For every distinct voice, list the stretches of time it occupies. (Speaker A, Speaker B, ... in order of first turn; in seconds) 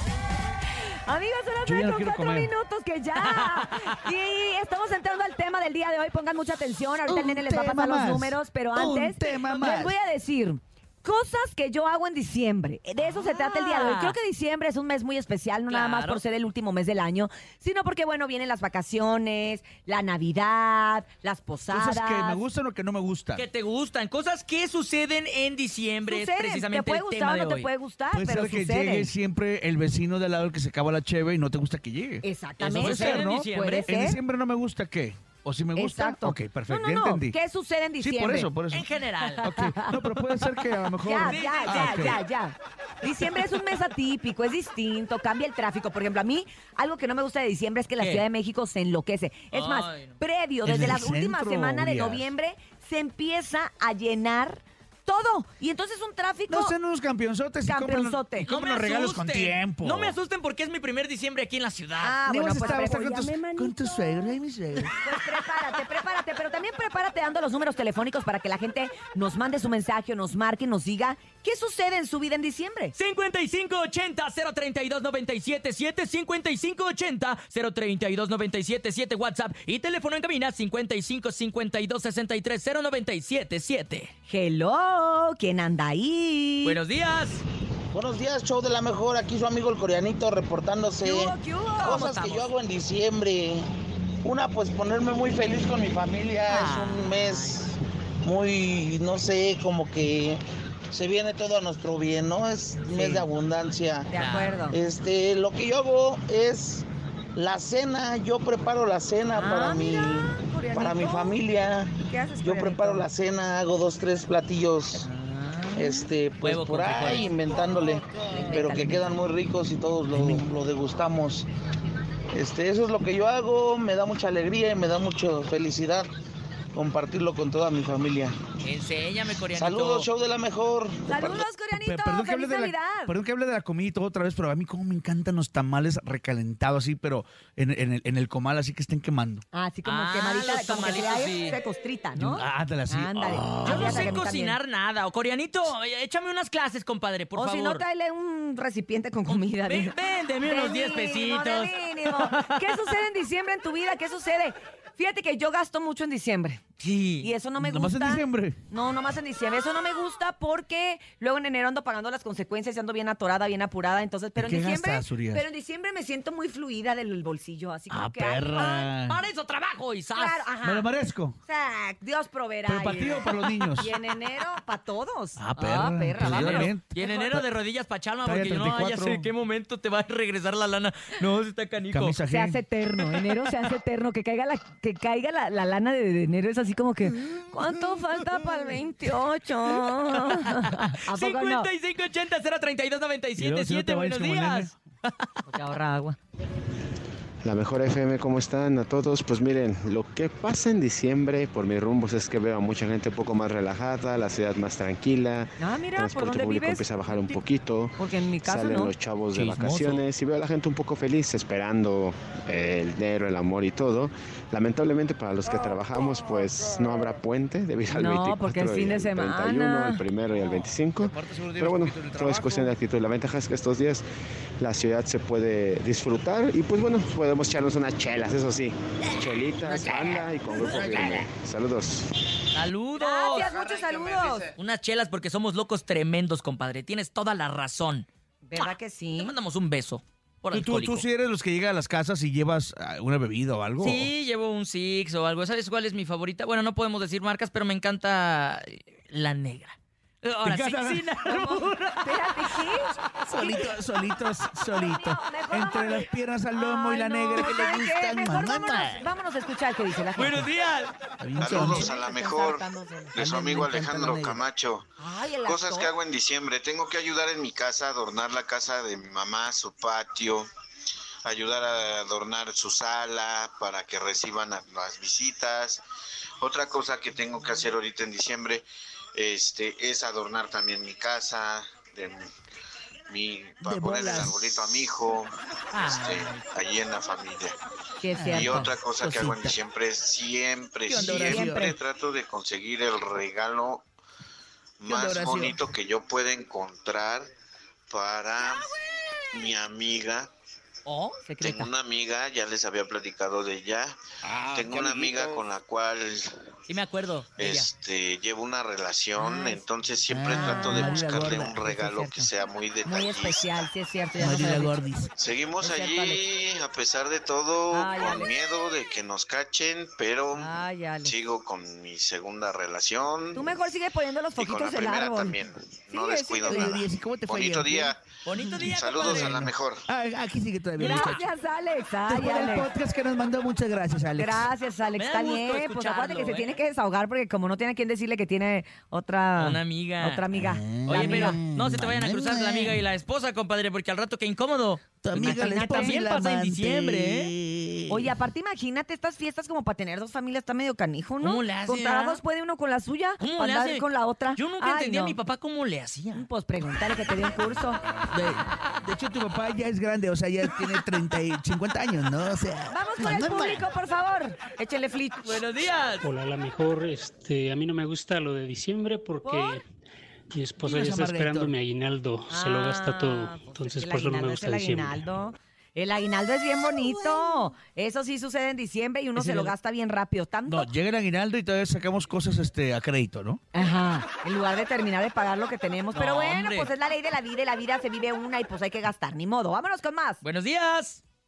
Speaker A: 1.1-22.4, 26.1-29.1, 32.2-34.2, 35.8-38.5, 39.2-40.1, 41.0-56.7, 57.7-58.5, 62.0-64.3, 64.9-72.9, 84.3-86.8, 91.0-92.3, 104.1-104.8, 109.3-111.4, 112.0-113.1, 115.1-116.1, 118.2-119.2, 131.1-133.1, 139.5-144.6, 147.3-156.6, 157.2-168.9, 170.1-170.9, 171.4-177.4, 182.2-191.7, 195.4-196.2, 205.6-206.8, 208.0-208.9, 217.9-220.0, 229.9-230.2, 232.9-234.5, 238.4-239.3, 251.3-253.7, 254.7-260.5, 261.5-263.4, 265.0-266.0, 288.0-288.7, 290.9-291.7, 301.2-301.7, 309.2-309.6, 310.3-312.3, 312.8-314.8, 315.6-316.2, 317.7-318.3, 320.3-321.1, 323.3-326.8, 330.8-332.7, 334.2-341.4, 345.1-346.0, 347.9-355.2, 356.1-357.8, 362.7-365.3, 369.2-369.6, 372.3-380.7, 383.5-390.2
Speaker B: 1.6-2.5, 7.1-10.0, 21.7-23.4, 28.1-32.2, 32.8-37.4, 38.0-38.9, 39.4-42.2, 50.6-52.3, 56.5-60.2, 62.2-65.0, 131.2-139.4, 142.2-143.8, 157.6-158.6, 164.3-165.4, 167.9-169.2, 170.6-171.4, 172.7-173.9, 175.3-176.9, 178.2-179.3, 181.9-182.6, 193.3-194.7, 209.3-210.1, 220.3-222.8, 240.5-244.1, 250.4-251.1, 253.2-259.0, 261.2-261.7, 263.2-264.4, 283.6-284.5, 288.1-289.5, 290.9-291.6, 294.9-295.5, 310.1-311.5, 314.2-315.1, 326.4-327.9, 328.4-331.2, 332.1-334.4, 340.3-342.9, 345.0-348.1, 358.1-363.6, 370.6-371.5, 380.4-383.4
Speaker C: 13.1-14.1, 15.7-16.2, 23.3-27.7, 32.6-33.9, 38.7-39.5, 40.3-42.2, 48.0-48.2, 49.5-50.2, 58.4-62.8, 73.0-84.1, 86.6-87.4, 91.9-92.5, 96.5-97.7, 104.1-104.6, 116.4-117.3, 128.6-130.1, 139.8-141.6, 143.5-147.8, 149.3-152.8, 156.8-157.3, 169.0-170.5, 176.2-182.2, 189.8-195.2, 229.7-230.1, 230.6-231.2, 232.5-233.5, 234.5-238.1, 239.1-241.1, 243.8-252.3, 260.2-260.9, 261.6-261.9, 285.7-286.4, 300.9-301.2, 306.7-307.7, 328.2-329.5, 330.8-331.2, 334.9-336.6, 339.4-340.2, 340.9-347.3, 351.2-352.2, 353.2-356.2, 365.2-366.0, 379.1-379.5, 385.9-386.7, 390.2-391.0
Speaker D: 87.9-93.6, 94.2-100.4, 100.9-104.1, 104.7-115.1, 115.7-121.5, 122.3-126.1, 126.7-128.3, 129.5-131.1
Speaker E: 197.4-224.1, 224.6-232.1
Speaker F: 261.4-264.9, 265.4-270.5, 271.2-275.8, 276.4-278.6, 279.1-282.2, 283.1-287.5, 288.3-293.8, 294.8-297.3, 297.9-298.7, 299.3-300.3, 301.4-306.3, 307.4-313.7, 315.1-320.5, 321.0-323.5, 324.3-328.0, 328.6-329.8
Speaker G: 366.0-369.6, 370.3-375.0